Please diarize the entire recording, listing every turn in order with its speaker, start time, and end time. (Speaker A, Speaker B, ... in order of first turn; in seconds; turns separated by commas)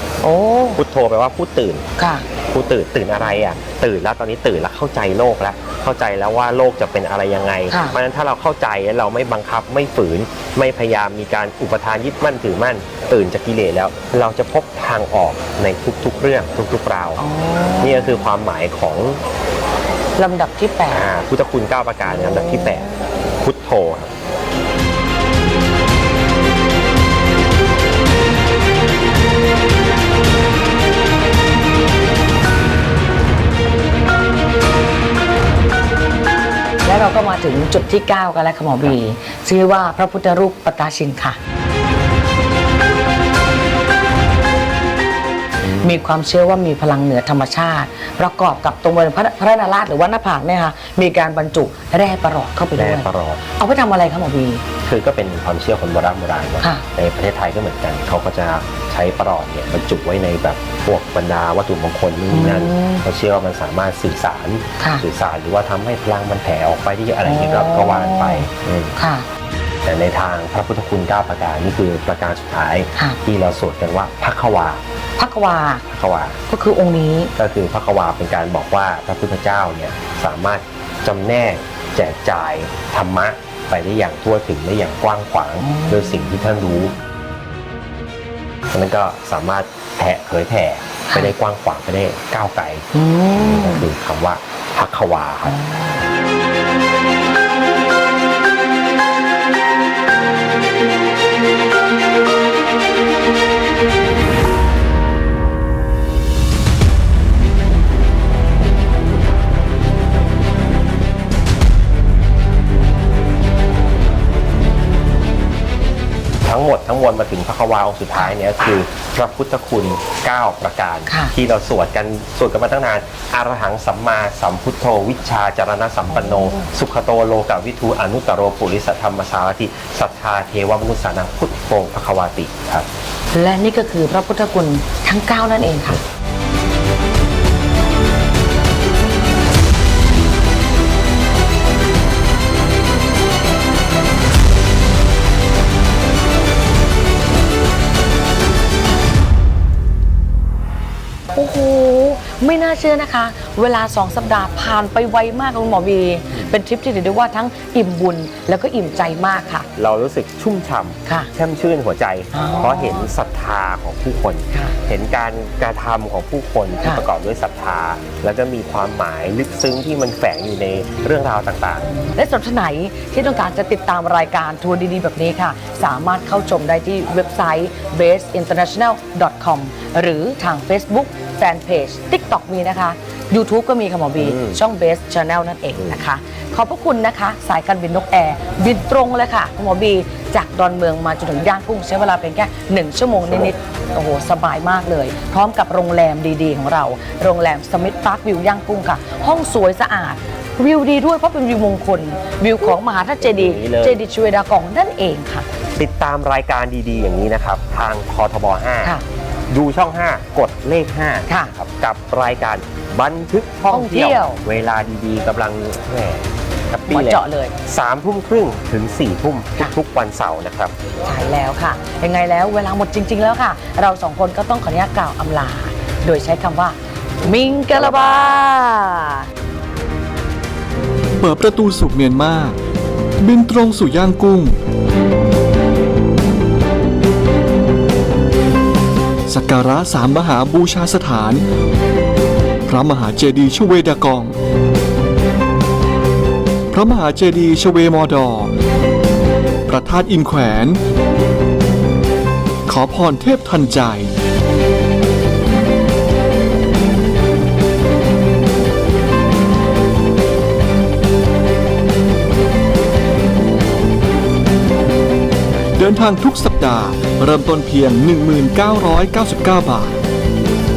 Speaker A: 0.2-0.8, Speaker B: 0.8-1.9, Speaker A: 2.0-2.3, Speaker B: 2.5-17.2, Speaker A: 7.7-8.0, Speaker A: 17.2-18.3, Speaker B: 17.8-19.2, Speaker A: 20.2-21.1, Speaker B: 20.9-22.9, Speaker A: 22.1-23.0, Speaker B: 23.4-24.1, Speaker A: 36.9-41.4, Speaker B: 45.6-45.9, Speaker A: 45.8-54.6, Speaker B: 52.8-53.4, Speaker B: 54.8-68.9, Speaker A: 62.3-63.0, Speaker A: 64.8-65.0, Speaker A: 67.2-69.3, Speaker B: 69.8-74.8, Speaker A: 75.2-75.8, Speaker B: 75.9-76.4, Speaker A: 76.5-77.3, Speaker B: 77.4-86.9, Speaker A: 85.6-86.2, Speaker B: 88.7-92.9, Speaker A: 91.1-91.3, Speaker A: 92.9-93.9, Speaker B: 93.5-95.6, Speaker A: 95.5-96.0, Speaker B: 116.4-132.9, Speaker A: 121.1-121.3, Speaker A: 126.1-126.7, Speaker A: 133.3-136.0, Speaker A: 151.3-159.7, Speaker B: 159.8-171.9, Speaker A: 161.1-161.3, Speaker A: 162.3-163.1, Speaker A: 164.5-164.8, Speaker A: 172.0-205.5, Speaker B: 184.2-184.6, Speaker B: 193.2-193.5, Speaker B: 203.2-204.0, Speaker B: 205.8-208.9, Speaker B: 209.5-220.7, Speaker A: 211.3-211.5, Speaker A: 213.7-214.4, Speaker A: 216.9-217.6, Speaker A: 221.0-229.3, Speaker B: 227.2-228.4, Speaker C: 231.2-232.6, Speaker C: 233.2-234.6, Speaker C: 239.3-241.4, Speaker C: 242.7-244.3, Speaker C: 246.7-248.5, Speaker C: 249.7-250.8, Speaker C: 252.7-254.1, Speaker C: 265.8-270.0